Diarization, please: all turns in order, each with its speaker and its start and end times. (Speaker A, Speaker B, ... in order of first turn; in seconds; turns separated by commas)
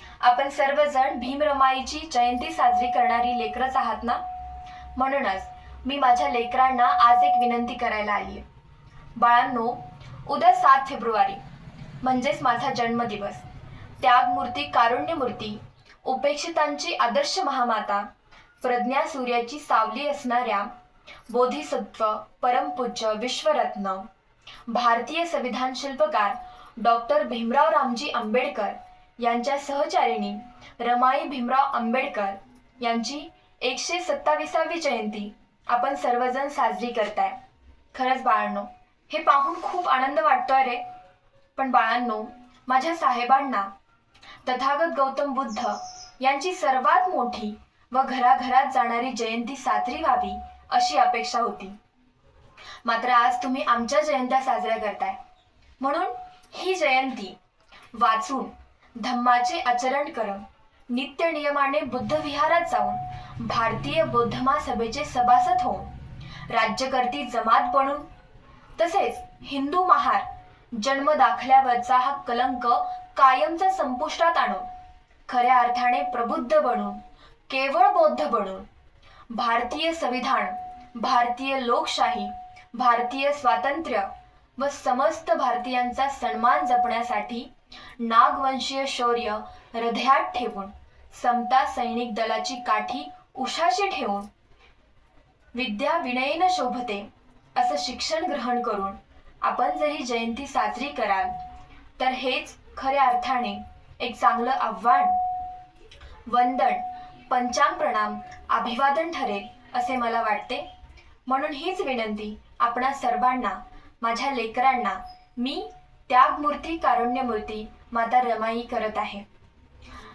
Speaker A: 0.2-4.2, Speaker A: 5.0-8.4, Speaker A: 9.2-11.4, Speaker A: 12.0-13.4, Speaker A: 14.0-18.1, Speaker A: 18.6-20.7, Speaker A: 21.3-24.1, Speaker A: 24.7-37.4, Speaker A: 37.9-40.9, Speaker A: 41.5-43.7, Speaker A: 44.4-51.8, Speaker A: 52.8-55.2, Speaker A: 55.8-57.4, Speaker A: 57.9-65.9, Speaker A: 66.5-68.1, Speaker A: 68.8-74.6, Speaker A: 75.3-78.7, Speaker A: 79.3-94.3, Speaker A: 95.5-101.3, Speaker A: 102.0-105.2, Speaker A: 106.2-110.7, Speaker A: 111.3-119.2